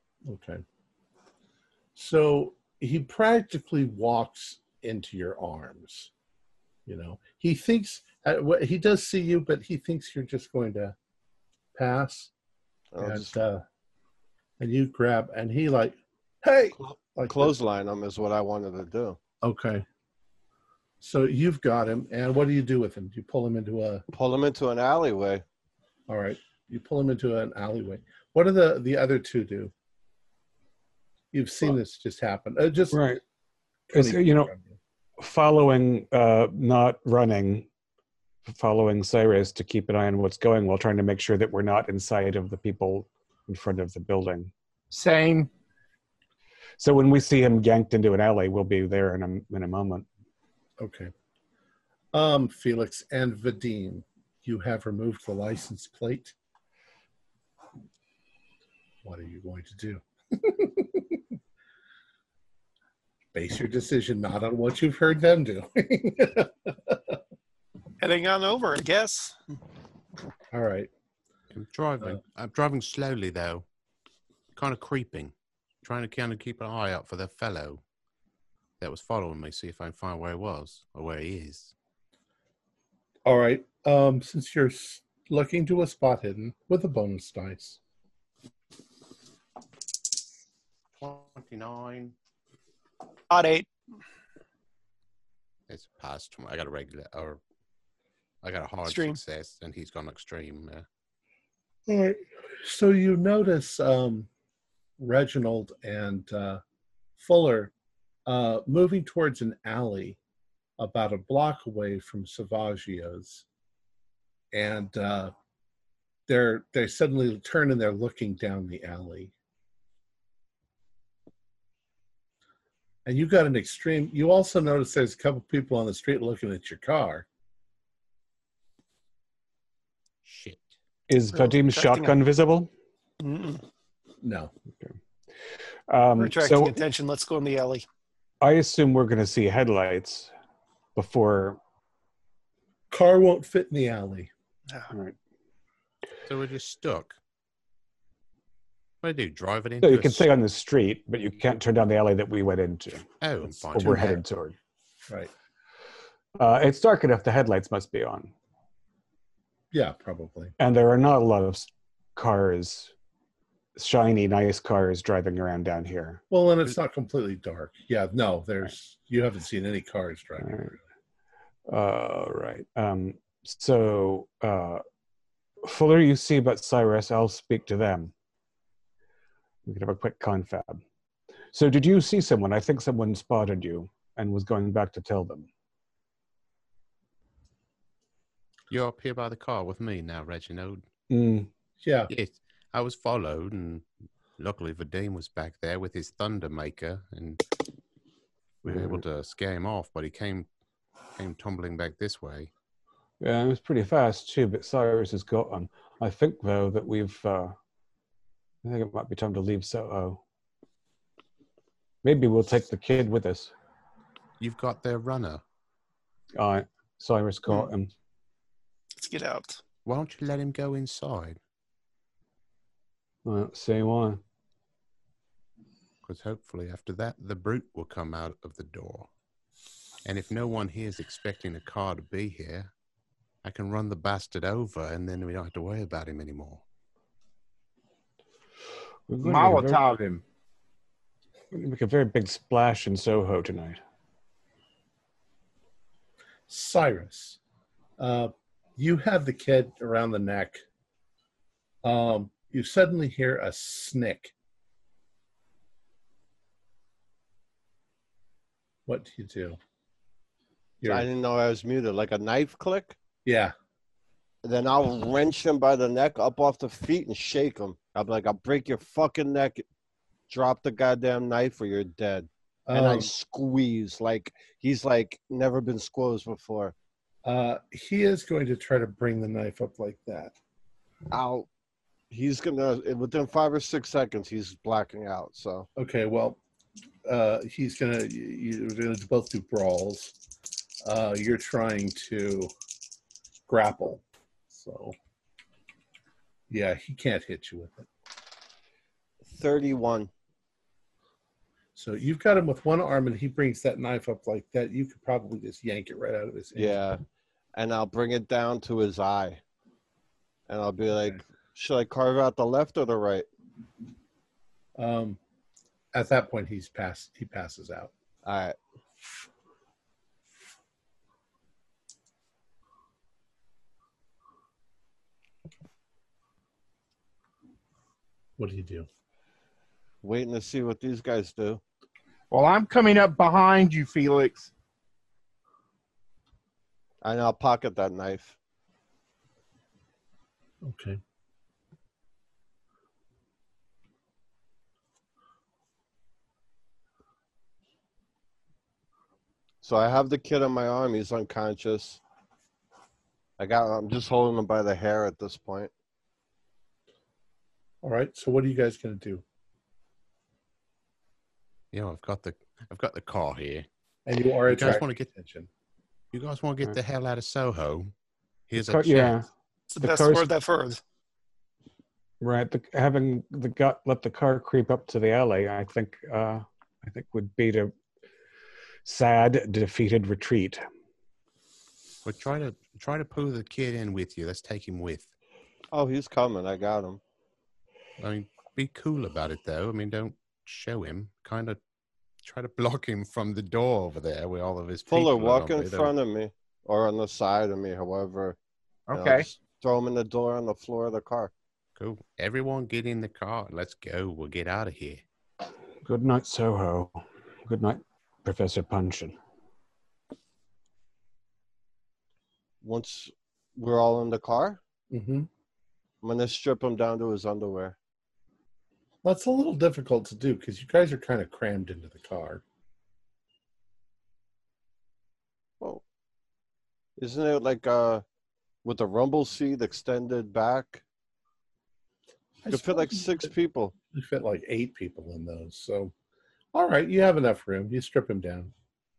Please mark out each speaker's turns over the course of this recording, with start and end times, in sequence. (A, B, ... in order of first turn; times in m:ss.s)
0:00.2-0:00.6 A
0:02.0-0:06.1 A
0:06.8-0:10.9 A
0:11.7-0:12.3 A
0:12.9-0:13.4 B
0:13.0-0:13.6 A
0:14.6-0:17.6 A
0:16.8-0:19.2 B
0:19.4-0:19.8 A
0:21.0-0:24.0 A
0:24.1-0:25.4 B
0:26.1-0:29.7 A
0:31.3-0:33.1 A
0:32.9-0:33.2 C
0:33.9-0:34.8 A
0:33.9-0:34.5 C
0:35.2-0:37.7 C
0:38.5-0:44.5 C
0:44.9-0:45.5 D
0:46.8-0:50.0 C
0:50.8-0:51.1 A
0:52.1-0:56.3 A
0:59.0-1:01.2 A
1:03.3-1:07.2 A
1:08.0-1:09.5 E
1:10.5-1:10.9 A
1:11.5-1:13.6 F
1:14.5-1:17.8 F
1:18.8-1:21.7 F
1:23.2-1:27.8 A
1:31.0-1:32.2 F
1:33.3-1:33.7 E
1:35.7-1:37.4 F
1:38.4-1:40.8 F
1:38.8-1:39.2 E
1:41.9-1:44.3 A
1:45.0-1:46.6 A
1:47.2-1:47.7 A
1:48.2-1:50.2 A
1:50.8-1:53.4 A
1:54.5-1:55.3 A
1:56.3-1:59.3 A
2:03.0-2:07.2 A
2:10.2-2:10.7 F
2:11.1-2:12.7 C
2:11.3-2:12.2 E
2:13.2-2:13.6 E
2:14.2-2:14.5 A
2:15.9-2:16.8 C
2:16.2-2:17.8 E
2:18.4-2:20.3 C
2:21.0-2:21.6 C
2:22.9-2:24.3 A
2:24.9-2:25.1 C
2:26.2-2:27.2 F
2:29.0-2:30.3 F
2:29.8-2:34.6 C
2:33.2-2:34.2 F
2:36.4-2:38.3 C
2:39.7-2:40.5 A
2:40.6-2:42.9 C
2:43.8-2:46.2 C
2:46.3-2:50.8 A
2:50.4-2:50.7 C
2:51.7-2:54.8 C
2:55.6-2:58.1 C
2:59.6-3:00.8 C
3:01.5-3:05.5 C
3:08.7-3:10.8 F
3:11.1-3:11.5 C
3:11.8-3:12.1 A
3:12.1-3:17.4 F
3:18.6-3:20.5 F
3:21.2-3:22.5 F
3:23.2-3:27.6 C
3:28.6-3:30.2 C
3:32.0-3:33.5 C
3:34.4-3:35.4 F
3:36.4-3:37.9 C
3:39.0-3:39.6 E
3:39.8-3:41.4 F
3:43.2-3:44.2 C
3:46.0-3:49.1 F
3:50.0-3:52.7 F
3:53.4-3:56.6 F
3:59.1-3:59.8 C
3:59.2-4:00.2 D
4:01.5-4:03.8 C
4:06.5-4:07.4 A
4:08.0-4:10.6 A
4:11.8-4:14.3 A
4:18.9-4:19.6 A
4:20.8-4:21.1 A
4:20.8-4:23.0 B
4:23.2-4:23.5 A
4:24.4-4:29.6 B
4:30.3-4:36.7 B
4:32.7-4:33.1 A
4:37.2-4:40.3 A
4:41.1-4:41.5 B
4:42.1-4:45.7 B
4:45.8-4:46.4 A
4:47.0-4:50.1 A
4:50.8-4:52.5 A
4:53.5-4:54.9 A
4:56.5-4:57.9 A
4:59.2-5:00.1 B
5:01.8-5:06.8 A
5:06.5-5:07.0 B
5:07.6-5:09.4 B
5:10.5-5:13.2 B
5:14.8-5:15.2 A
5:15.9-5:17.9 A
5:18.2-5:18.6 B
5:28.4-5:28.9 A
5:30.0-5:31.6 B
5:32.3-5:34.5 D
5:37.0-5:38.3 B
5:40.6-5:41.0 A
5:49.6-5:52.0 B
5:53.4-5:55.7 B
5:57.8-5:59.2 A
6:01.7-6:03.7 F
6:04.0-6:05.5 A
6:04.5-6:05.1 F
6:06.1-6:07.9 F
6:08.5-6:09.2 F
6:08.5-6:09.3 C
6:09.7-6:10.8 E
6:09.8-6:10.2 C
6:12.2-6:17.7 C
6:18.8-6:20.6 C
6:22.0-6:25.1 F
6:25.7-6:27.0 B
6:28.0-6:31.6 F
6:32.2-6:35.9 F
6:34.9-6:38.4 B
6:38.9-6:39.2 D
6:38.9-6:41.3 B
6:41.8-6:45.0 F
6:45.8-6:49.2 C
6:52.6-6:54.6 B
6:54.9-6:55.3 A
6:56.0-6:57.8 B
6:59.0-7:02.4 A
7:07.0-7:08.0 B
7:08.6-7:10.8 B
7:12.4-7:13.3 A
7:12.5-7:13.7 B
7:13.9-7:15.9 A
7:16.5-7:18.5 A